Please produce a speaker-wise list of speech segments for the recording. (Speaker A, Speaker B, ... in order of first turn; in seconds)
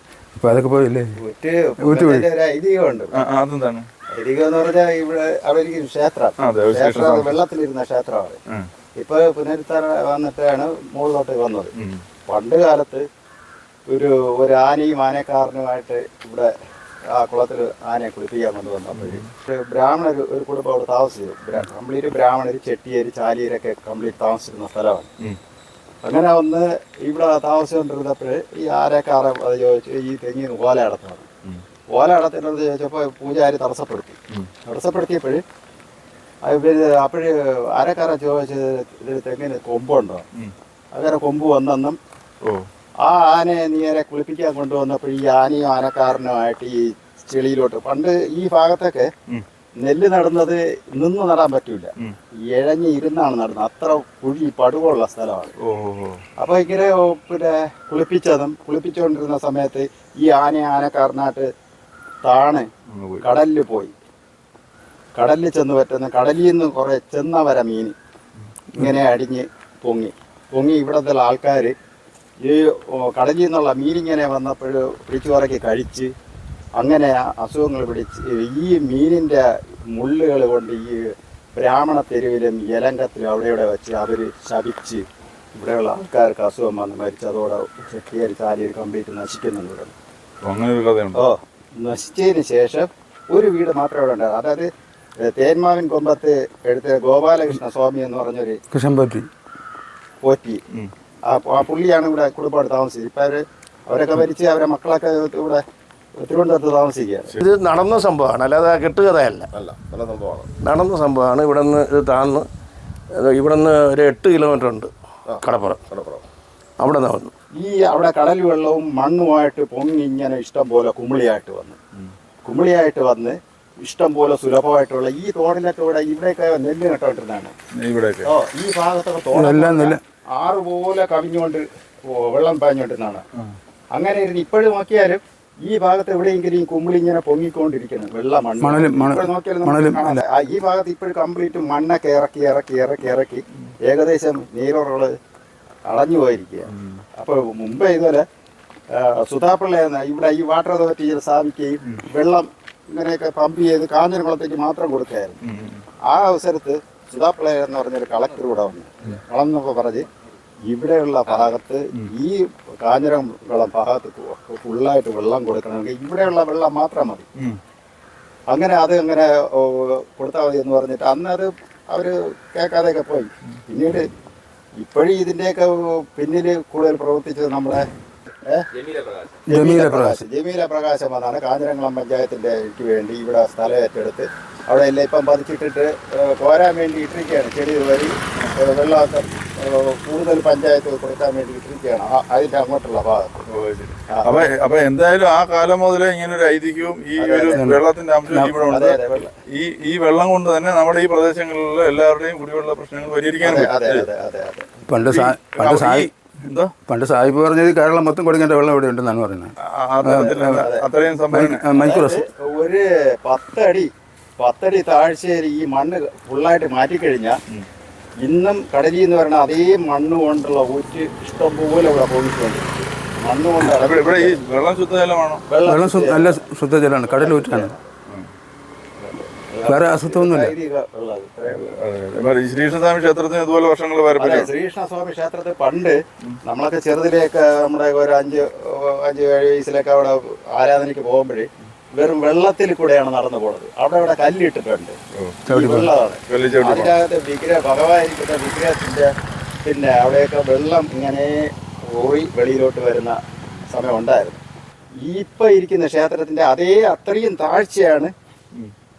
Speaker A: 0.3-1.2, 1.8-2.3, 98.7-99.3, 129.3-130.0, 138.6-140.2, 179.5-180.2, 197.6-198.7, 204.9-206.1, 206.9-210.7, 211.3-212.2, 225.7-227.7, 229.7-230.5, 245.5-245.9
Speaker B: 1.2-3.1, 4.1-8.4, 9.0-11.7, 12.3-13.0, 13.9-16.5, 17.1-25.1, 26.0-31.3, 31.9-35.4, 36.5-40.3, 40.9-42.0, 43.0-49.1, 49.8-51.9, 52.5-55.5, 56.4-61.5, 62.2-62.7, 63.2-63.9, 65.2-68.0, 68.8-71.7, 72.4-76.1, 76.8-81.0, 81.5-85.0, 85.5-90.0, 91.2-94.7, 95.2-98.6, 100.2-100.6, 101.3-105.6, 106.2-107.3, 117.6-121.8, 122.5-127.5, 128.2-133.2, 133.9-145.1, 145.9-148.2, 148.9-155.4, 156.1-160.1, 160.7-167.2, 168.5-174.1, 174.8-177.9, 179.5-193.4, 194.1-194.5, 197.2-197.6, 198.6-199.3, 203.4-204.8, 210.2-210.9, 211.8-217.4, 218.2-224.4, 225.5-226.4, 227.0-227.8, 229.0-231.7, 234.2-245.0, 245.5-249.1, 249.6-254.4, 255.1-258.1
Speaker C: 3.2-3.9, 6.4-7.3, 18.9-19.3, 55.6-56.2, 62.9-63.2, 90.4-91.2, 127.8-128.3, 146.7-147.0, 155.4-155.8, 193.5-199.0, 199.5-204.1, 205.1-206.7, 209.7-211.7, 223.8-225.5, 231.5-234.5, 246.3-246.9
Speaker D: 107.4-109.5, 110.6-112.5, 113.2-114.9, 115.4-115.9, 116.8-117.3
Speaker E: 109.5-110.5, 115.3-116.2